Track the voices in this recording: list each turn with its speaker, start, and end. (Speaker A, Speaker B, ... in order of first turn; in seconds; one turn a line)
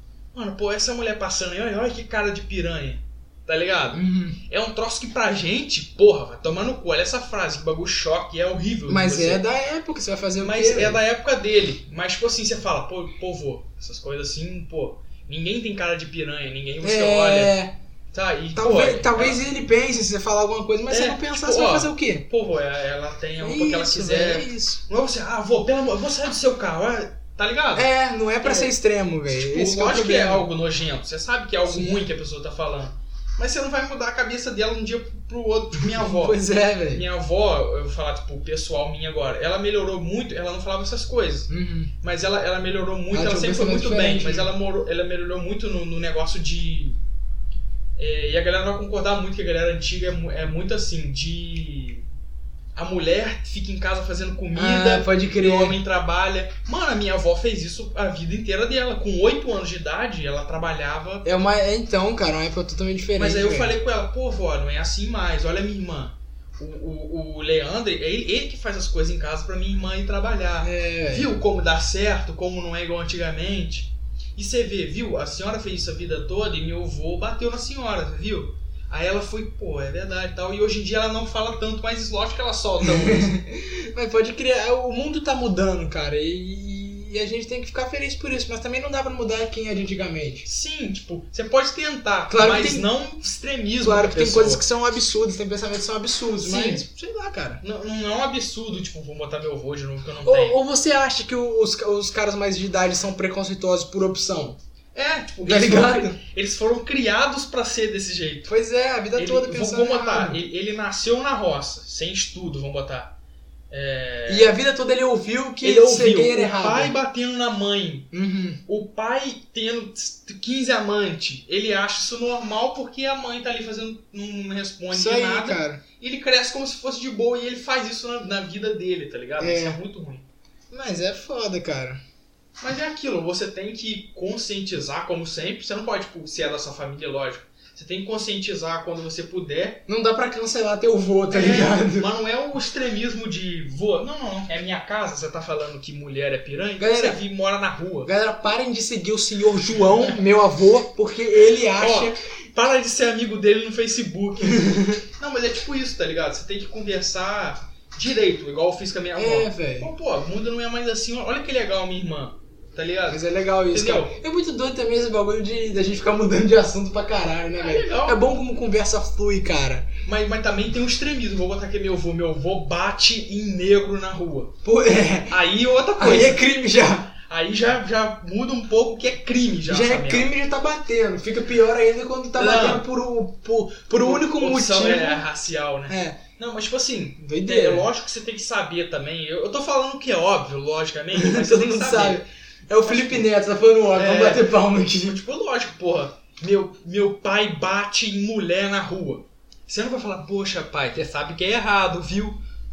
Speaker A: 0.3-9.4
Speaker B: 3.9-4.4
Speaker B: 8.9-11.0
Speaker A: 10.4-17.5
Speaker B: 16.8-17.7
Speaker A: 18.1-19.4
Speaker B: 18.5-22.2
Speaker A: 20.9-27.9
Speaker B: 23.4-24.8
Speaker B: 27.7-30.4
Speaker A: 28.4-28.7
Speaker A: 29.3-41.5
Speaker B: 31.6-32.0
Speaker B: 35.8-37.0
Speaker B: 41.5-41.9
Speaker A: 42.0-47.0
Speaker B: 43.1-44.5
Speaker A: 48.0-52.0
Speaker A: 52.7-61.2
Speaker B: 54.5-55.8
Speaker B: 61.2-63.7
Speaker A: 63.1-83.3
Speaker B: 70.6-71.3
Speaker B: 82.8-90.5
Speaker A: 90.5-94.6
Speaker B: 92.3-92.9
Speaker B: 93.8-97.6
Speaker A: 96.4-96.8
Speaker A: 97.6-100.6
Speaker B: 100.2-104.6
Speaker A: 104.9-108.5
Speaker B: 105.5-106.2
Speaker B: 108.5-110.4
Speaker A: 109.1-113.2
Speaker A: 113.7-114.5
Speaker B: 114.3-116.9
Speaker A: 115.6-118.1
Speaker B: 118.1-118.6
Speaker A: 118.7-130.2
Speaker B: 124.9-125.8
Speaker B: 129.4-129.8
Speaker B: 130.7-132.0
Speaker A: 132.6-139.8
Speaker B: 139.9-142.1
Speaker A: 141.3-148.1
Speaker B: 146.8-147.2
Speaker B: 148.0-152.2
Speaker A: 149.7-150.2
Speaker A: 151.7-164.2
Speaker B: 154.4-155.0
Speaker B: 159.2-159.9
Speaker B: 163.1-169.9
Speaker A: 167.6-168.3
Speaker A: 170.1-174.5
Speaker B: 174.6-175.4
Speaker A: 175.3-176.4
Speaker B: 176.0-177.1
Speaker A: 177.2-180.3
Speaker B: 179.7-185.2
Speaker A: 182.4-182.8
Speaker A: 183.9-192.2
Speaker B: 185.9-186.2
Speaker B: 187.2-187.9
Speaker B: 191.1-195.2
Speaker A: 192.8-193.3
Speaker A: 193.9-202.4